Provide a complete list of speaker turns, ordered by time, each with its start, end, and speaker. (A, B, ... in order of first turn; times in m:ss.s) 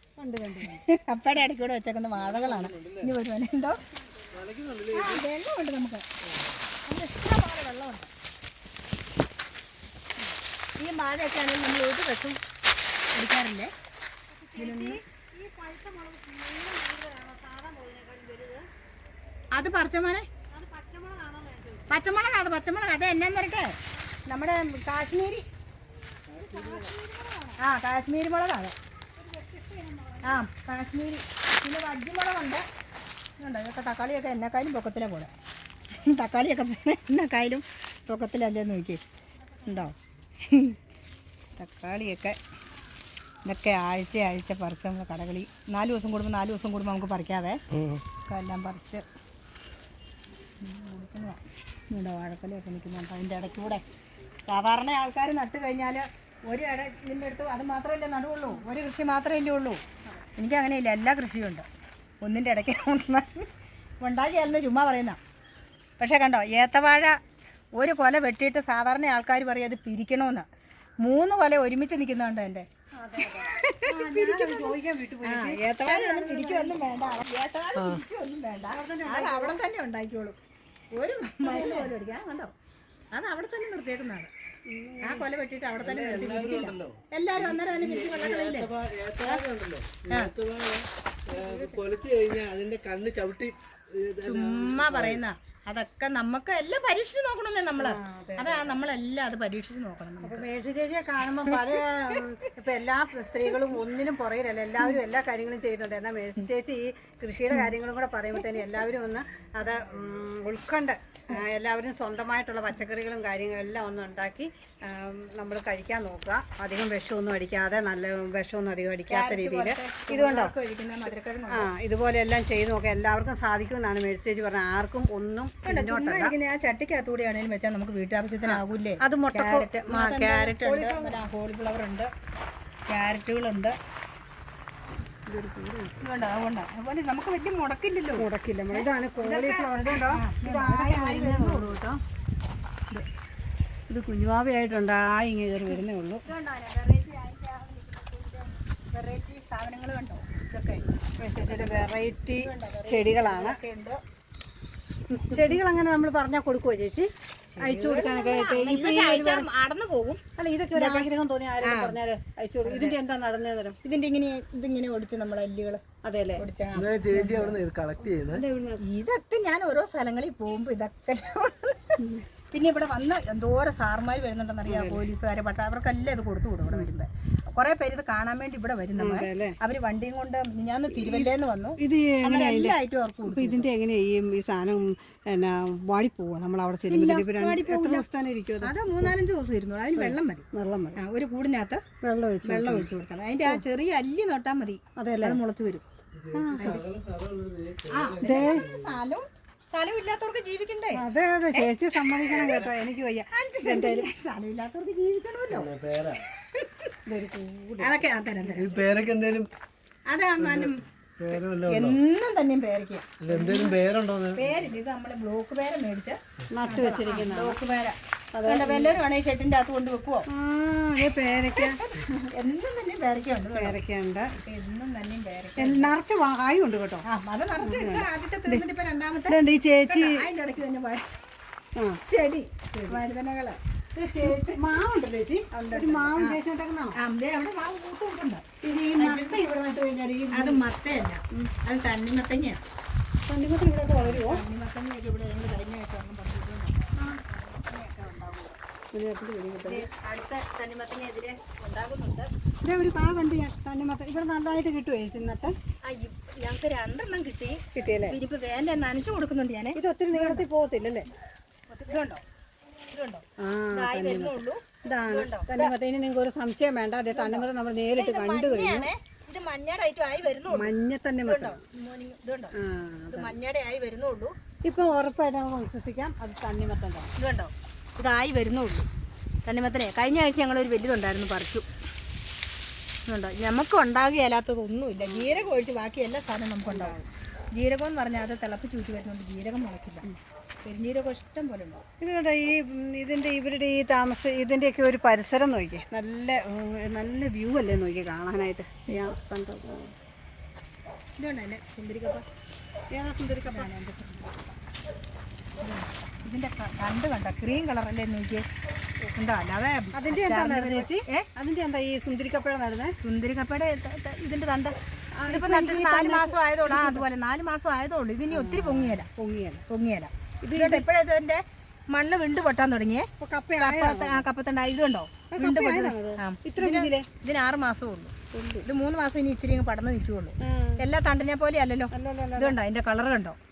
0:00.2-0:00.8 A
0:00.6-0:03.8 B
0:02.2-0:03.1 C
0:04.0-0:04.3 A
0:04.3-0:05.2 C
0:04.9-0:06.0 B
0:06.3-0:06.6 C
0:06.9-0:08.1 B
0:10.8-0:12.4 B
0:13.1-0:13.7 B
0:14.3-0:18.7 A
0:14.6-0:15.0 B
0:19.5-0:20.3 B
0:20.5-0:22.0 A
0:21.9-0:25.5 B
0:26.2-0:27.6 A
0:26.5-0:26.8 C
0:27.6-0:28.8 B
0:29.2-0:30.4 A
0:30.2-0:32.6 B
0:33.4-0:35.3 B
0:36.0-0:39.0 B
0:39.7-0:40.0 B
0:40.5-0:40.8 B
0:41.6-0:42.4 B
0:43.4-0:47.6 B
0:48.3-0:49.0 B
0:50.6-0:53.8 B
0:54.5-1:01.7 B
1:02.2-1:03.5 B
1:04.0-1:05.2 B
1:06.0-1:07.2 B
1:07.8-1:10.5 B
1:11.0-1:12.7 B
1:13.0-1:16.8 A
1:13.6-1:20.4 B
1:18.7-1:19.6 A
1:20.9-1:22.5 B
1:21.4-1:22.0 A
1:23.1-1:24.3 B
1:24.7-1:25.3 A
1:25.0-1:29.4 B
1:25.8-1:35.2 C
1:31.4-1:31.8 A
1:34.2-1:40.4 B
1:37.8-1:38.8 A
1:40.2-2:00.6 A
1:59.1-2:01.7 B
2:01.5-2:06.4 A
2:05.6-2:12.1 B
2:08.4-2:11.3 A
2:12.9-2:13.8 B
2:15.3-2:16.0 A
2:16.0-2:21.8 B
2:18.2-2:22.0 A
2:23.9-2:26.2 A
2:26.3-2:30.8 B
2:31.2-2:33.6 A
2:31.4-2:34.0 B
2:35.1-2:39.5 A
2:37.5-2:40.2 B
2:40.4-2:43.8 A
2:40.8-2:41.1 B
2:41.6-2:42.0 B
2:42.6-2:43.0 B
2:43.8-2:45.8 B
2:46.0-2:46.4 A
2:46.4-2:47.3 B
2:46.8-2:48.4 C
2:47.1-2:47.6 A
2:48.1-2:48.8 A
2:48.8-3:03.7 B
2:54.7-2:55.1 A
2:59.0-2:59.6 A
3:00.9-3:09.2 A
3:06.9-3:08.0 B
3:08.6-3:10.4 B
3:10.0-3:11.0 A
3:11.0-3:11.8 B
3:12.0-3:12.9 A
3:12.4-3:15.8 B
3:15.0-3:15.4 A
3:16.1-3:19.0 C
3:16.3-3:16.8 A
3:16.6-3:16.8 B
3:17.9-3:22.4 B
3:18.2-3:18.6 A
3:20.9-3:24.1 A
3:23.3-3:25.7 B
3:25.5-3:26.2 C
3:26.3-3:27.0 B
3:27.1-3:28.0 A
3:27.8-3:28.8 B
3:28.4-3:29.5 C
3:30.1-3:30.8 B
3:30.4-3:32.0 C
3:31.7-3:33.1 B
3:33.2-3:34.6 C
3:33.3-3:33.8 A
3:34.3-3:40.3 B
3:36.5-3:37.6 A
3:38.3-3:39.0 A
3:40.3-3:41.8 A
3:41.5-3:43.8 B
3:43.6-3:44.3 A
3:44.4-3:45.9 B
3:45.6-3:47.0 A
3:47.1-3:51.1 B
3:47.6-3:48.6 A
3:49.3-3:50.3 A
3:51.8-3:52.0 A
3:52.1-3:54.6 B
3:52.7-3:53.0 A
3:54.0-3:57.0 A
3:55.5-3:56.4 B
3:57.0-3:58.5 B
3:58.6-4:00.6 A
3:59.0-3:59.5 B
4:00.3-4:02.6 B
4:03.3-4:04.4 A
4:04.0-4:08.6 B
4:08.9-4:09.9 A
4:09.7-4:12.3 B
4:12.6-4:15.6 A
4:15.8-4:20.4 B
4:17.7-4:18.2 A
4:19.8-4:21.1 A
4:21.7-4:22.2 B
4:22.9-4:25.7 B
4:23.4-4:28.9 A
4:27.1-4:30.7 B
4:30.5-4:31.6 A
4:31.2-4:32.5 B
4:32.6-4:33.4 A
4:33.1-4:34.4 B
4:34.6-4:37.1 A
4:37.2-4:38.9 B
4:39.4-4:41.6 B
4:43.1-4:47.0 B
4:45.0-4:45.5 A
4:46.7-4:47.1 A
4:47.6-4:50.1 B
4:50.6-4:51.8 B
4:52.0-4:59.9 A
5:01.2-5:02.2 B
5:02.9-5:03.7 A
5:03.5-5:04.5 B
5:05.6-5:08.5 B
5:09.1-5:11.3 B
5:09.9-5:13.0 A
5:13.0-5:14.8 B
5:15.2-5:17.0 A
5:15.3-5:19.1 B
5:18.3-5:19.6 A
5:19.7-5:28.1 B
5:20.4-5:20.9 A
5:23.2-5:24.3 A
5:25.3-5:27.1 A
5:28.3-5:28.7 A
5:28.6-5:33.4 B
5:30.4-5:30.8 A
5:31.9-5:32.6 A